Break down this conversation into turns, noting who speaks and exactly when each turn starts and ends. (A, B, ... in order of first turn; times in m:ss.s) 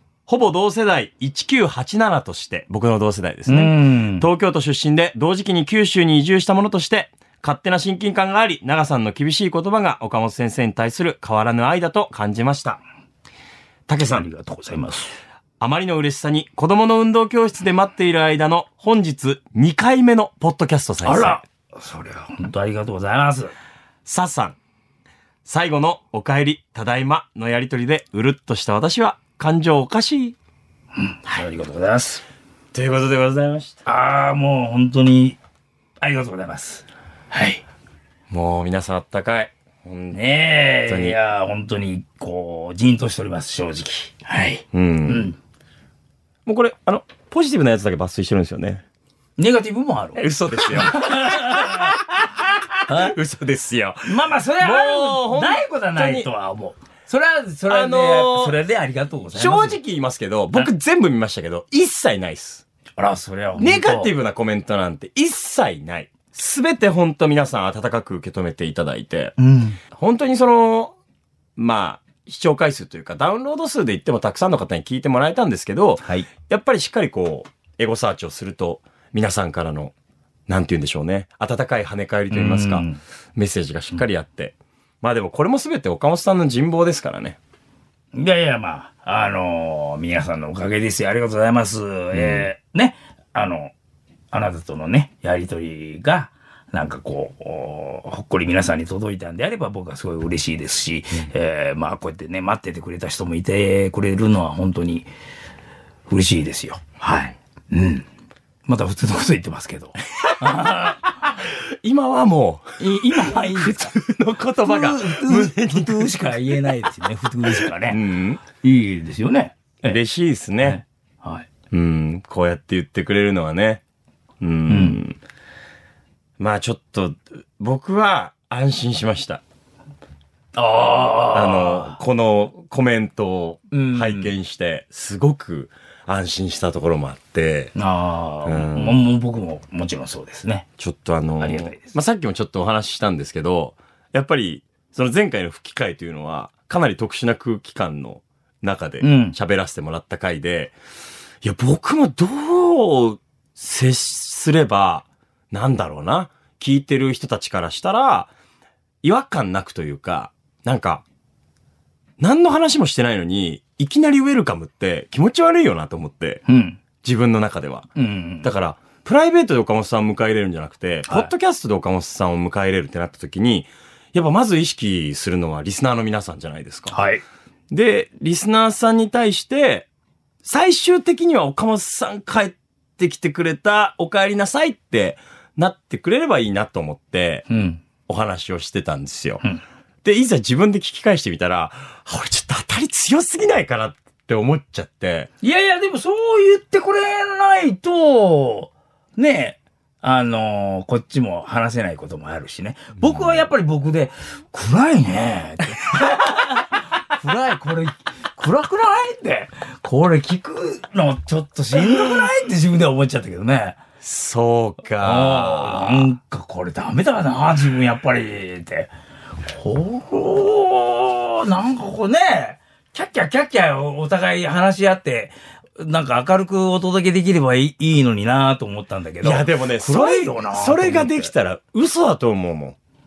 0:00.3-0:12.8 A
0:03.5-0:04.3 B
0:13.9-0:14.2 A
0:14.1-0:15.1 B
0:15.6-0:21.4 A
0:21.0-0:23.5 B
0:24.0-0:24.6 A
0:25.4-0:30.4 A
0:31.0-0:32.2 B
0:32.7-0:33.8 A
0:33.8-0:35.4 B
0:36.0-0:37.6 B
0:38.3-0:40.2 A
0:40.1-0:45.4 B
0:40.8-0:41.2 A
0:44.7-0:45.3 A
0:46.4-0:48.8 A
0:49.4-0:52.0 B
0:50.2-0:56.3 A
0:52.9-0:53.1 B
0:54.0-0:59.8 B
0:57.7-0:58.6 A
0:59.3-1:02.6 A
1:03.0-1:04.1 B
1:03.6-1:09.3 A
1:09.4-1:09.8 B
1:09.9-1:11.0 A
1:11.6-1:19.9 A
1:20.5-1:27.4 A
1:22.3-1:23.0 B
1:28.1-1:33.7 B
1:32.1-1:32.5 A
1:34.3-1:45.1 B
1:46.1-1:48.0 B
1:48.7-1:51.1 B
1:51.8-1:56.4 A
1:52.8-1:54.0 B
1:54.6-1:58.0 B
1:57.6-1:58.4 A
1:58.5-2:00.0 B
1:59.8-2:00.8 A
2:00.6-2:01.5 B
2:01.7-2:03.8 A
2:04.4-2:05.2 A
2:04.7-2:05.0 B
2:06.4-2:09.4 A
2:10.5-2:12.0 B
2:11.3-2:17.7 A
2:13.7-2:14.3 B
2:17.8-2:20.6 B
2:18.4-2:19.0 A
2:20.8-2:30.7 A
2:21.4-2:21.9 B
2:29.0-2:29.4 B
2:31.4-2:38.3 A
2:39.0-2:41.0 A
2:42.2-2:46.4 A
2:46.5-2:46.8 B
2:47.0-2:47.9 A
2:48.0-2:48.5 B
2:48.4-2:56.9 A
2:56.9-2:57.2 B
2:57.7-2:59.9 A
3:00.4-3:07.4 A
3:07.5-3:07.8 B
3:08.0-3:09.4 A
3:10.0-3:15.3 A
3:15.4-3:33.8 B
3:23.0-3:23.3 A
3:34.0-3:36.1 A
3:35.0-3:38.9 B
3:39.5-3:51.3 B
3:49.2-3:52.8 A